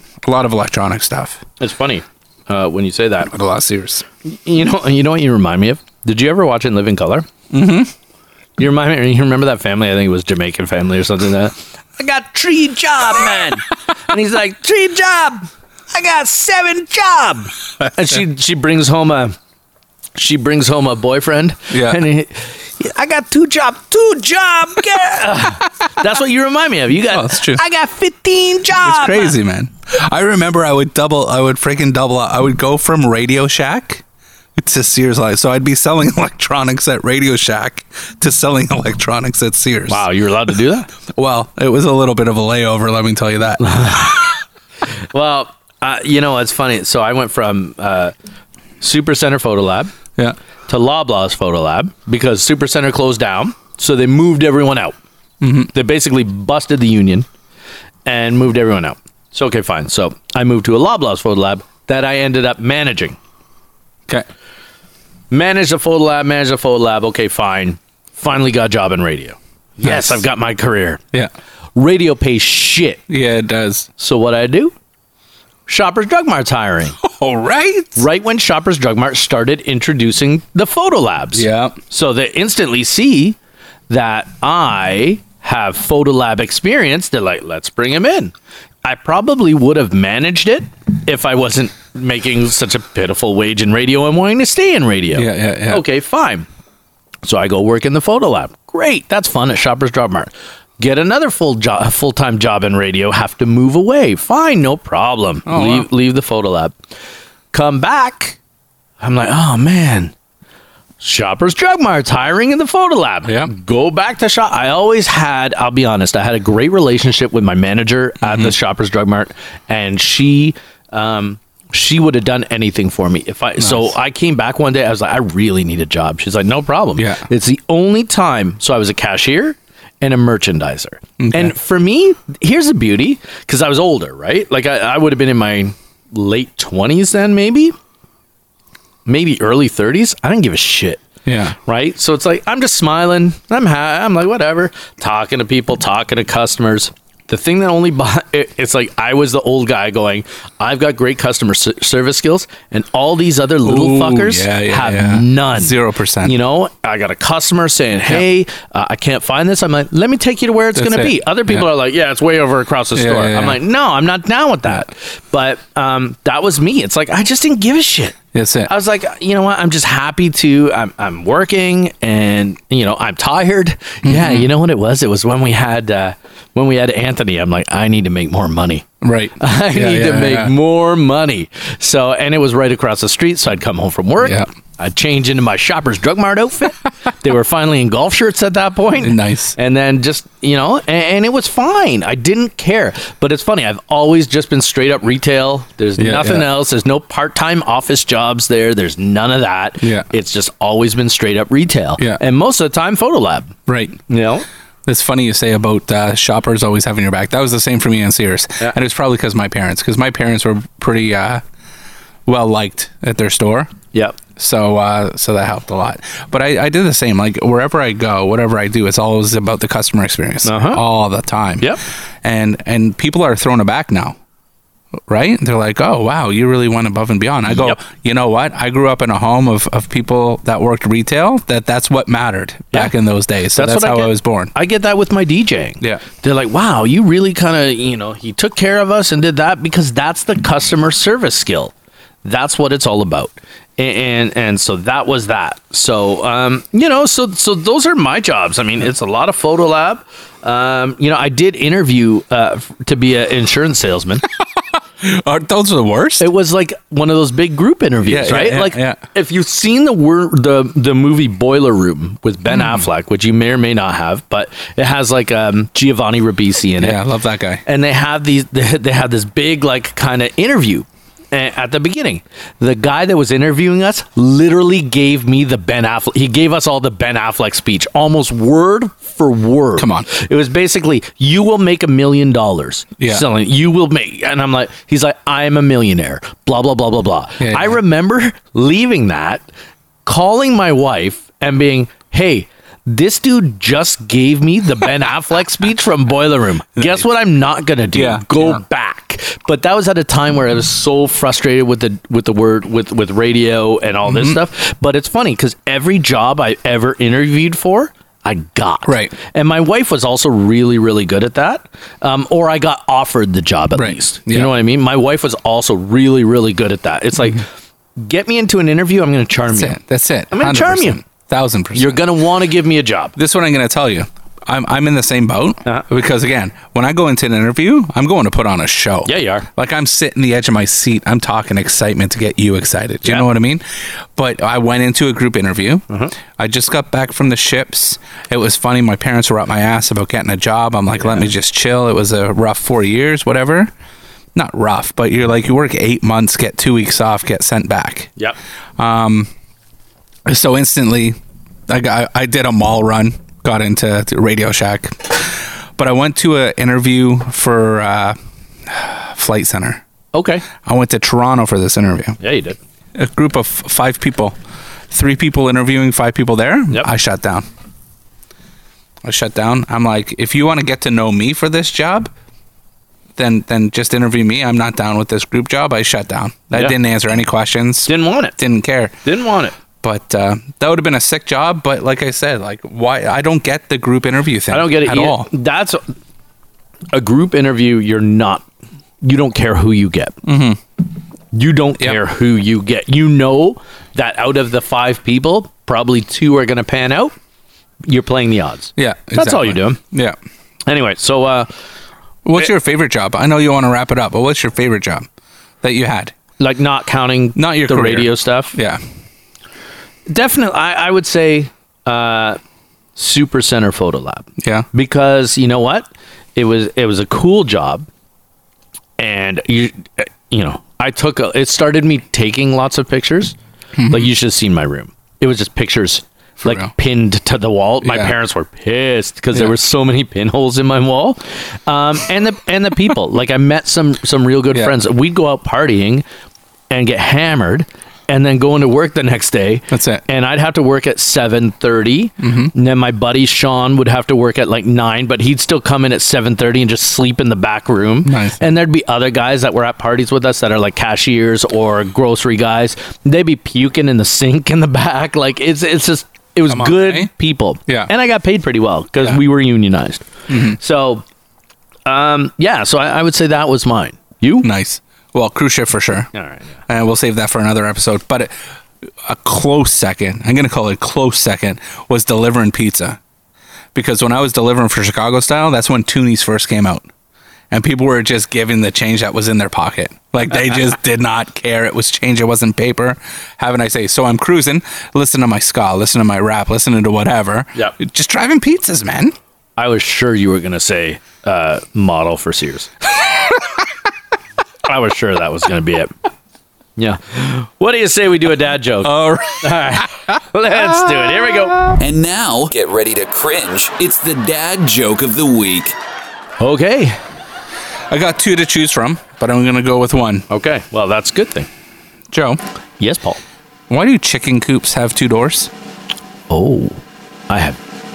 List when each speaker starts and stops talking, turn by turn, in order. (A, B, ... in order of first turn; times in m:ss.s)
0:00.2-0:01.4 A
0:01.6-0:03.3 B
0:03.3-0:04.0 A
0:04.2-0:07.3 B
0:07.5-0:07.9 A
0:08.6-0:19.4 B
0:20.2-0:29.4 B
0:21.7-0:22.0 A
0:27.1-0:27.6 A
0:28.8-0:34.0 A
0:34.6-0:40.1 A
0:39.9-0:40.9 B
0:41.1-0:44.3 A
0:43.6-0:44.3 B
0:45.1-0:48.1 B
0:48.8-0:49.9 B
0:50.7-0:54.9 B
0:55.4-0:55.7 A
0:55.7-0:57.3 B
0:58.0-1:03.2 B
1:05.3-1:11.0 B
1:09.8-1:10.2 A
1:11.8-1:13.0 B
1:13.1-1:13.9 A
1:14.0-1:14.7 B
1:15.7-1:17.0 B
1:17.0-1:18.0 A
1:18.0-1:23.4 B
1:21.3-1:21.8 A
1:23.9-1:36.5 B
1:35.1-1:35.8 A
1:37.2-1:46.8 B
1:45.4-1:45.9 A
1:47.5-1:48.4 B
1:49.0-1:50.1 B
1:51.0-2:17.8 B
1:53.2-1:53.5 A
1:58.2-1:58.5 A
2:03.6-2:03.9 A
2:07.0-2:07.2 A
2:11.2-2:11.5 A
2:19.0-2:21.0 B
2:21.2-2:21.5 A
2:21.6-2:58.8 B
2:33.6-2:36.3 A
2:40.7-2:41.6 A
2:42.9-2:43.6 A
2:48.3-2:48.7 A
2:54.0-2:54.5 A
2:59.0-3:00.5 A
2:59.4-3:24.5 B
3:04.2-3:04.5 A
3:09.0-3:09.6 A
3:16.0-3:16.5 A
3:19.8-3:20.1 A
3:23.7-3:24.0 A
3:24.8-3:31.4 A
3:32.2-3:33.7 A
3:33.9-3:34.2 B
3:34.4-3:44.2 A
3:40.4-3:40.8 B
3:45.1-3:54.5 A
3:53.5-4:01.7 B
4:02.2-4:14.2 B
4:14.6-4:16.2 A
4:16.2-4:27.0 B
4:18.0-4:19.0 A
4:22.4-4:22.9 A
4:26.8-4:27.6 A
4:27.6-4:49.4 B
4:39.8-4:40.1 A
4:43.0-4:43.2 A
4:47.4-4:47.8 A
4:50.0-5:17.4 B
4:57.9-4:58.6 A
5:04.0-5:04.4 A
5:08.8-5:09.1 A
5:13.7-5:14.5 A
5:18.0-5:19.8 B
5:19.5-5:22.0 A
5:20.3-5:21.0 B
5:21.7-5:23.1 B
5:23.2-5:33.6 A
5:29.0-5:29.5 B
5:34.1-5:43.7 A
5:35.9-5:36.1 B
5:41.0-5:41.3 B
5:44.3-5:48.1 A
5:48.8-5:49.3 A
5:50.2-5:51.2 A
5:51.7-5:59.8 A
6:00.1-6:00.5 B
6:00.6-6:02.2 A
6:02.2-6:02.6 B
6:02.9-6:04.4 A
6:04.9-6:07.4 A
6:09.0-6:12.1 A
6:13.2-6:18.9 A
6:17.9-6:18.4 B
6:19.0-6:19.5 B
6:19.8-6:25.3 A
6:24.5-6:25.8 B
6:26.9-6:28.4 B
6:29.0-6:30.2 B
6:30.2-6:30.6 A
6:31.3-6:37.1 B
6:37.8-6:39.8 B
6:38.8-6:40.2 A
6:40.7-6:41.5 B
6:42.2-6:45.1 A
6:45.6-6:46.2 A
6:46.4-6:48.6 B
6:47.4-6:48.8 A
6:50.1-6:52.4 B
6:53.0-6:57.9 B
6:54.4-6:54.6 A
6:59.0-7:03.4 B
7:03.8-7:04.1 A
7:03.9-7:16.0 B
7:06.4-7:06.7 A
7:07.8-7:08.1 A
7:16.7-7:41.0 B
7:19.7-7:20.0 A
7:22.2-7:22.5 A
7:28.0-7:28.4 A
7:36.5-7:37.1 A
7:40.3-7:40.6 A
7:41.8-7:44.5 B
7:44.4-7:46.1 A
7:46.1-7:46.5 B
7:46.7-7:48.3 A
7:49.0-7:53.0 A
7:53.7-7:56.9 A
7:57.5-8:09.2 A
8:09.6-8:12.7 B
8:14.6-8:15.9 B
8:16.8-8:21.7 B
8:18.8-8:20.2 A
8:21.8-8:25.7 C
8:26.4-8:27.0 B
8:27.9-8:30.2 A
8:30.3-8:31.5 B
8:32.1-8:32.4 A
8:32.8-8:33.2 B
8:33.7-8:35.5 A
8:36.3-8:37.6 B